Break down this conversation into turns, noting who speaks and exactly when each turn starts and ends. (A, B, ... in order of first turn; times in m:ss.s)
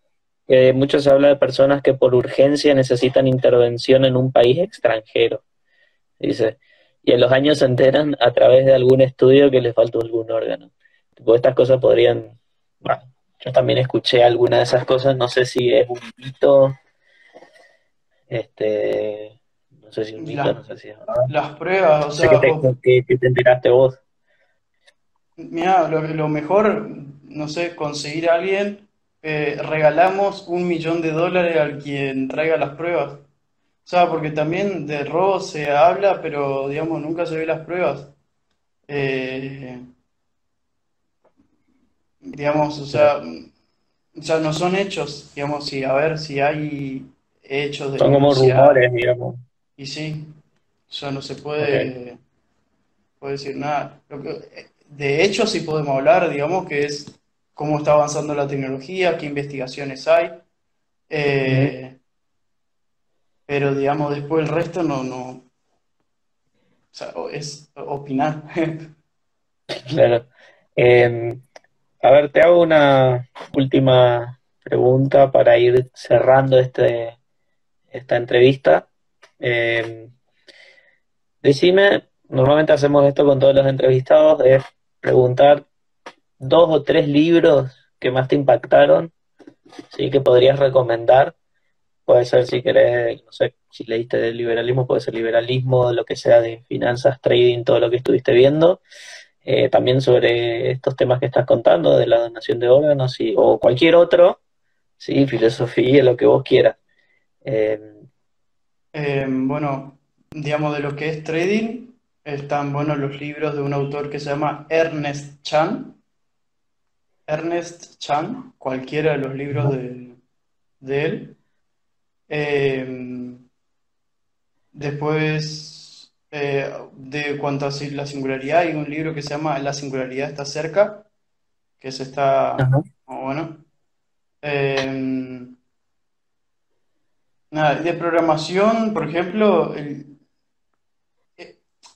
0:00.5-0:05.4 A
0:06.2-0:16.8 A
0:18.3-0:21.3 A
0:20.2-0:20.6 B
0:21.3-0:22.7 B
0:22.2-0:24.0 A
0:25.4-0:33.3 B
0:33.8-0:38.1 B
0:38.9-0:39.8 B
0:42.3-0:43.5 B
0:44.2-0:48.8 B
0:48.0-0:49.4 A
0:49.8-0:50.4 B
0:50.9-0:52.2 B
0:51.6-0:51.9 A
0:53.2-1:00.4 B
1:01.1-1:02.0 B
1:01.5-1:01.7 A
1:03.5-1:05.5 B
1:06.9-1:08.9 B
1:09.7-1:10.3 A
1:10.8-1:11.4 A
1:12.0-1:17.2 A
1:17.9-1:18.9 A
1:19.4-1:20.1 A
1:21.4-1:25.7 A
1:26.4-1:29.1 A
1:29.9-1:31.4 A
1:32.1-1:38.8 A
1:39.4-1:44.4 A
1:45.0-1:46.8 A
1:47.4-1:48.0 A
1:48.9-1:56.0 B
1:57.3-2:00.2 B
2:00.8-2:01.4 B
2:02.3-2:03.4 B
2:04.7-2:11.1 B
2:11.8-2:13.6 B
2:12.6-2:12.8 A
2:14.4-2:15.6 B
2:17.5-2:20.2 B